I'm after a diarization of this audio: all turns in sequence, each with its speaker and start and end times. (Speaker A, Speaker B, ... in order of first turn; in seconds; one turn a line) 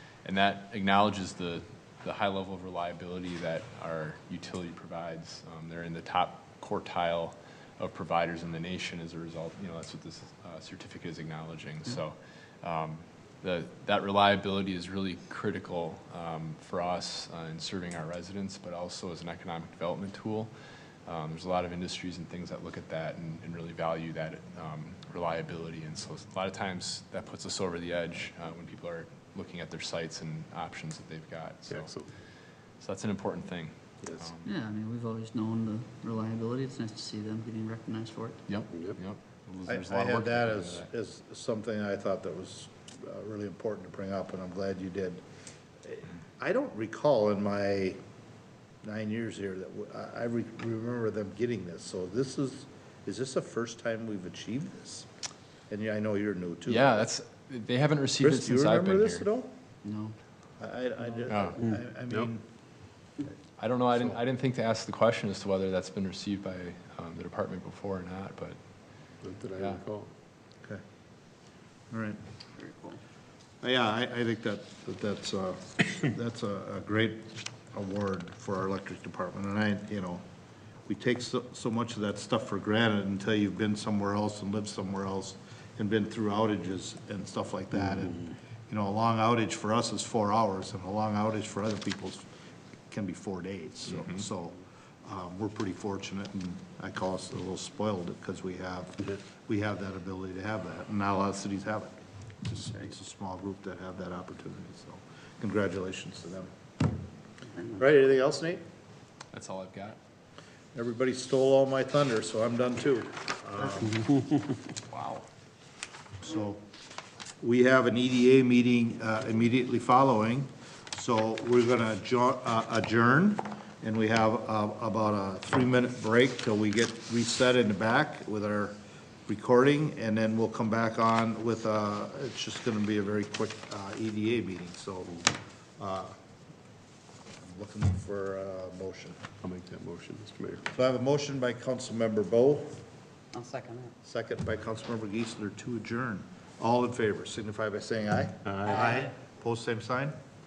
Speaker A: 0.2-20.5
Speaker A: 21.1-31.9
Speaker B: 31.7-32.1
Speaker A: 32.8-34.5
Speaker B: 34.0-34.3
Speaker C: 34.5-38.4
Speaker A: 38.5-40.9
Speaker B: 38.7-39.0
Speaker D: 39.7-45.2
Speaker D: 45.8-48.0
Speaker D: 48.8-55.1
Speaker D: 55.7-57.1
Speaker A: 56.7-59.3
Speaker D: 58.2-59.5
Speaker C: 59.8-60.2
Speaker D: 60.6-62.4
Speaker A: 61.3-61.6
Speaker B: 61.6-62.3
Speaker A: 63.6-68.6
Speaker B: 69.2-70.1
Speaker A: 69.5-69.8
Speaker D: 71.9-72.2
Speaker C: 72.6-73.0
Speaker D: 73.6-80.2
Speaker D: 80.9-92.2
Speaker D: 92.9-106.5
Speaker A: 93.9-94.3
Speaker D: 107.8-108.6
Speaker A: 109.3-110.0
Speaker D: 110.7-114.1
Speaker A: 114.8-115.2
Speaker D: 116.2-116.6
Speaker D: 117.4-136.2
Speaker D: 137.4-139.2
Speaker B: 139.4-140.7
Speaker D: 140.7-142.8
Speaker C: 143.3-143.9
Speaker D: 144.0-150.2
Speaker B: 148.4-149.0